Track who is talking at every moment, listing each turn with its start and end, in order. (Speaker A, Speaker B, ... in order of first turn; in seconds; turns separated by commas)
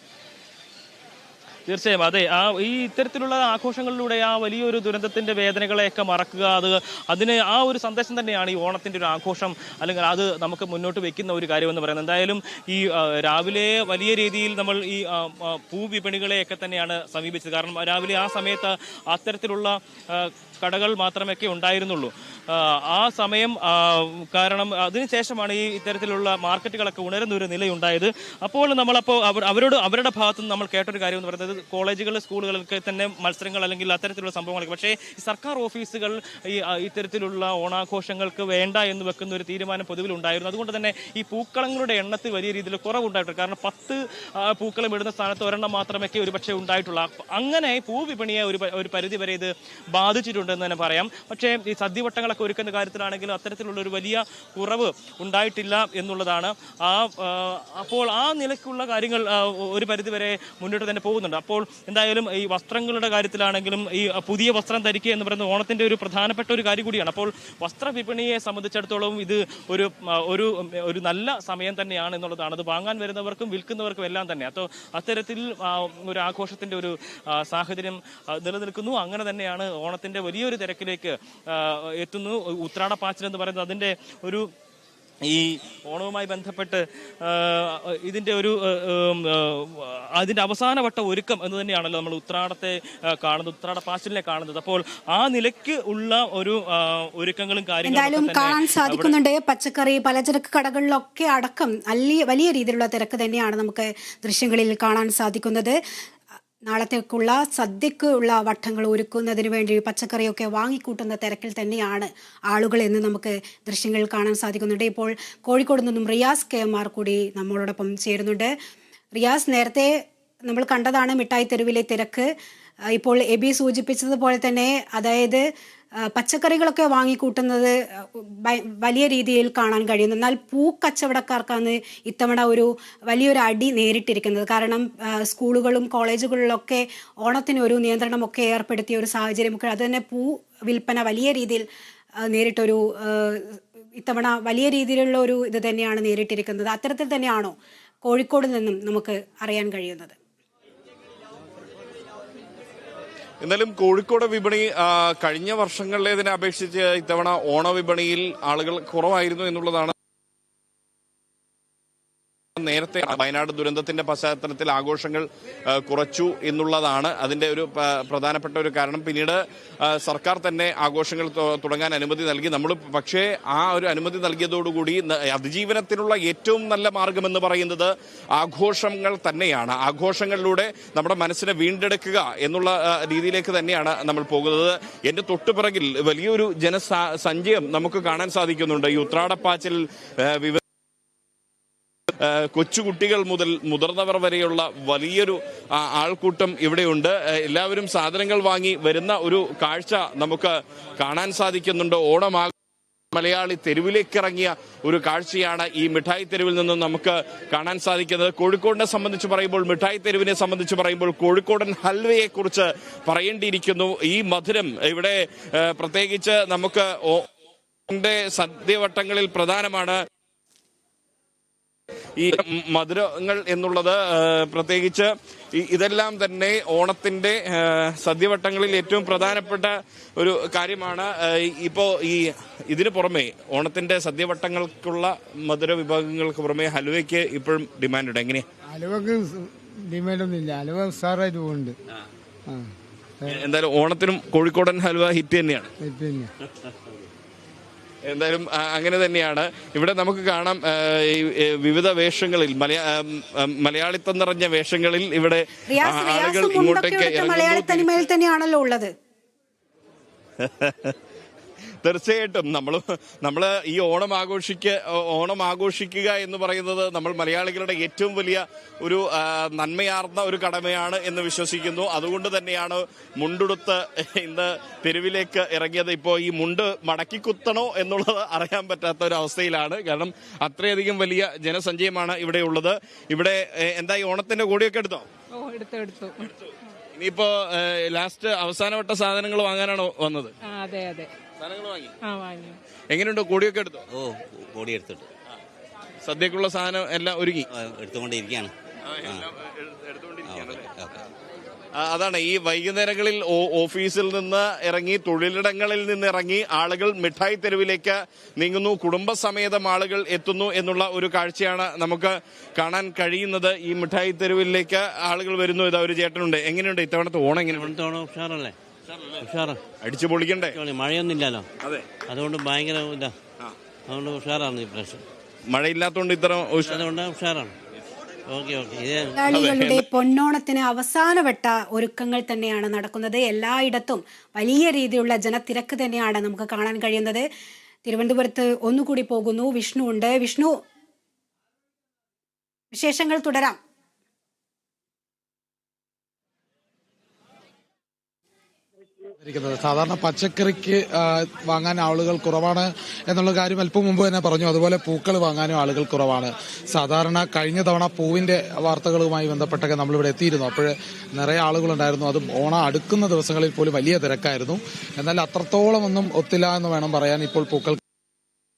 Speaker A: 1.7-84.5, Speaker A: 85.2-99.2, Speaker B: 97.9-105.8, Speaker B: 106.7-118.5, Speaker B: 119.1-122.3, Speaker B: 122.9-125.4, Speaker B: 126.0-141.7, Speaker B: 142.2-150.1, Speaker C: 153.4-159.9, Speaker C: 162.6-190.6, Speaker C: 192.2-202.5, Speaker C: 203.1-217.3, Speaker C: 217.9-220.0, Speaker C: 222.2-238.4, Speaker D: 238.7-241.7, Speaker C: 243.3-245.7, Speaker D: 245.8-246.3, Speaker C: 248.1-258.0, Speaker B: 255.7-258.9, Speaker C: 260.4-260.9, Speaker C: 261.8-285.1, Speaker E: 285.4-286.4, Speaker C: 286.9-290.4, Speaker E: 290.4-291.1, Speaker C: 291.4-291.9, Speaker E: 292.0-292.6, Speaker C: 292.9-293.8, Speaker F: 293.9-295.1, Speaker C: 296.0-297.5, Speaker F: 297.5-298.5, Speaker C: 298.9-300.7, Speaker F: 300.2-301.0, Speaker C: 301.8-317.7, Speaker F: 317.5-318.6, Speaker F: 319.2-319.6, Speaker C: 319.8-320.6, Speaker F: 320.5-321.4, Speaker F: 322.1-323.1, Speaker F: 323.9-325.0, Speaker C: 325.5-326.9, Speaker F: 326.6-327.5, Speaker F: 328.3-329.2, Speaker B: 329.2-337.2, Speaker C: 329.2-329.9, Speaker B: 337.9-340.6, Speaker B: 342.7-343.6, Speaker G: 349.2-367.8